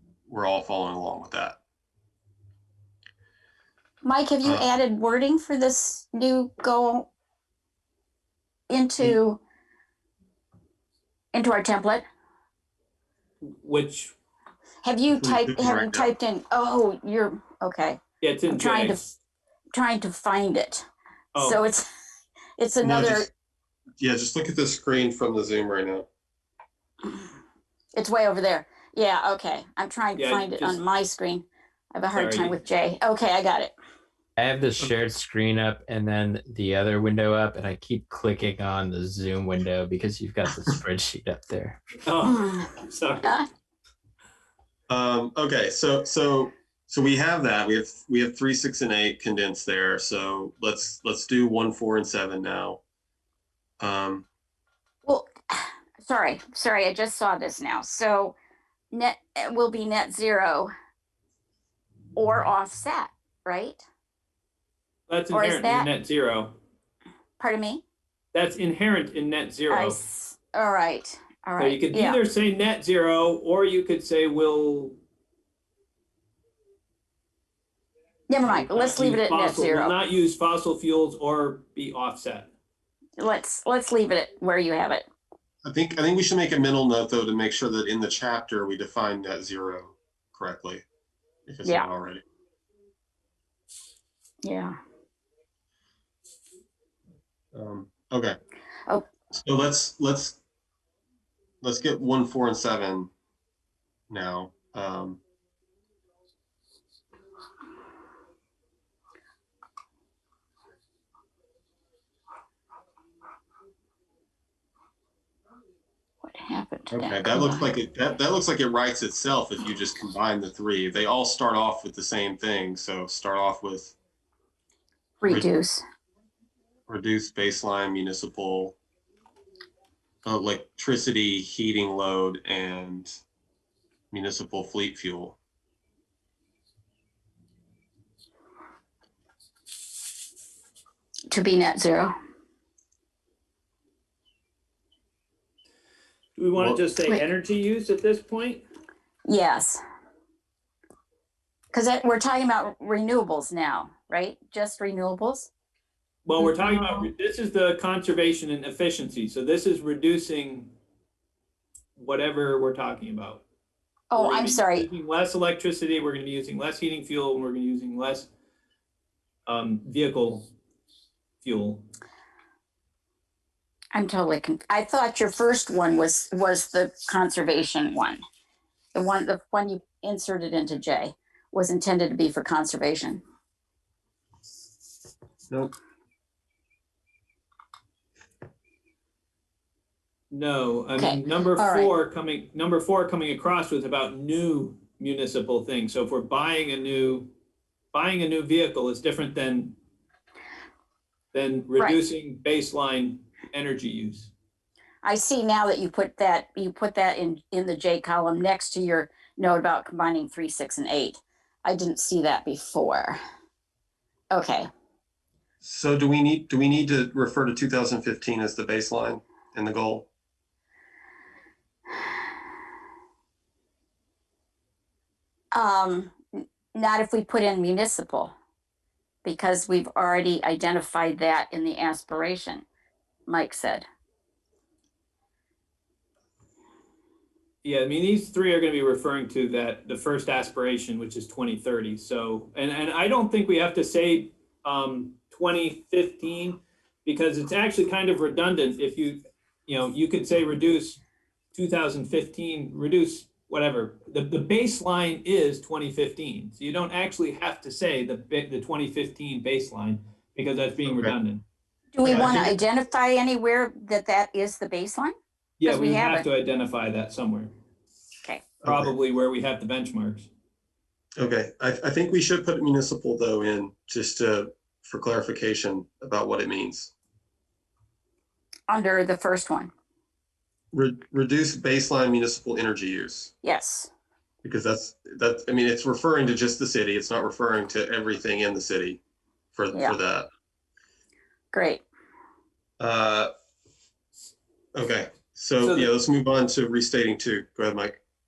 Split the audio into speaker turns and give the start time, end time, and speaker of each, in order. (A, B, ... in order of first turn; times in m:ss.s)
0:00.3-0:01.6 A
0:04.0-0:07.1 B
0:08.7-0:09.4 B
0:11.3-0:12.0 B
0:13.4-0:14.2 C
0:14.8-0:19.1 B
0:15.1-0:16.1 A
0:18.2-0:19.0 C
0:19.7-0:21.8 B
0:21.4-0:21.6 C
0:22.6-0:23.3 B
0:22.8-0:23.3 A
0:24.0-0:26.1 A
0:27.0-0:27.3 B
0:27.9-0:33.7 B
0:30.2-0:30.8 C
0:32.1-0:32.6 C
0:34.4-0:41.8 D
0:42.1-0:43.4 C
0:42.3-0:42.7 B
0:44.9-0:52.8 A
0:53.8-0:54.3 A
0:55.1-0:58.4 B
0:58.9-1:00.7 B
1:02.2-1:03.8 B
1:05.1-1:06.6 C
1:05.3-1:05.9 B
1:07.4-1:07.8 B
1:08.3-1:10.0 C
1:09.7-1:12.2 B
1:11.6-1:15.0 C
1:18.3-1:20.0 B
1:18.4-1:22.5 C
1:23.2-1:25.1 B
1:25.6-1:30.8 A
1:31.5-1:32.2 A
1:34.4-1:34.8 B
1:37.5-1:38.4 A
1:39.3-1:40.4 A
1:41.6-1:43.1 A
1:44.1-1:45.2 A
1:56.2-1:57.7 B
1:56.9-2:04.0 A
2:05.2-2:05.8 B
2:06.9-2:08.8 A
2:10.2-2:13.2 A
2:14.1-2:15.4 A
2:21.3-2:22.1 B
2:26.4-2:28.6 C
2:29.3-2:29.8 B
2:31.7-2:35.5 B
2:36.2-2:40.7 C
2:36.4-2:37.1 B
2:42.0-2:43.4 C
2:44.1-2:44.9 B
2:44.2-2:48.3 C
2:49.5-2:50.5 C
2:51.4-2:51.9 C
2:53.9-2:58.2 B
2:59.0-3:03.2 B
3:10.3-3:17.3 C
3:11.0-3:11.9 B
3:17.9-3:19.8 C
3:21.3-3:24.3 C
3:25.0-3:33.2 B
3:34.3-3:34.7 B
3:35.6-3:40.1 A
3:45.5-3:48.3 B
3:49.2-3:52.6 B
3:53.3-3:53.9 B
3:57.6-4:11.0 C
4:11.5-4:21.4 C
4:20.9-4:21.1 A
4:22.0-4:25.1 B
4:22.0-4:22.6 A
4:22.1-4:22.4 C
4:25.6-4:27.5 C
4:25.6-4:26.3 B
4:28.2-4:28.5 B
4:28.6-4:28.9 A
4:28.6-4:30.3 C
4:31.2-4:36.9 A
4:38.7-4:39.7 B
4:40.7-4:43.3 A
4:43.4-4:43.9 B
4:44.4-4:49.0 A
4:49.6-4:50.3 A
4:49.7-4:50.0 B
4:51.5-4:51.8 B
4:52.8-4:53.3 A
4:54.8-4:58.0 A
4:55.6-4:55.9 C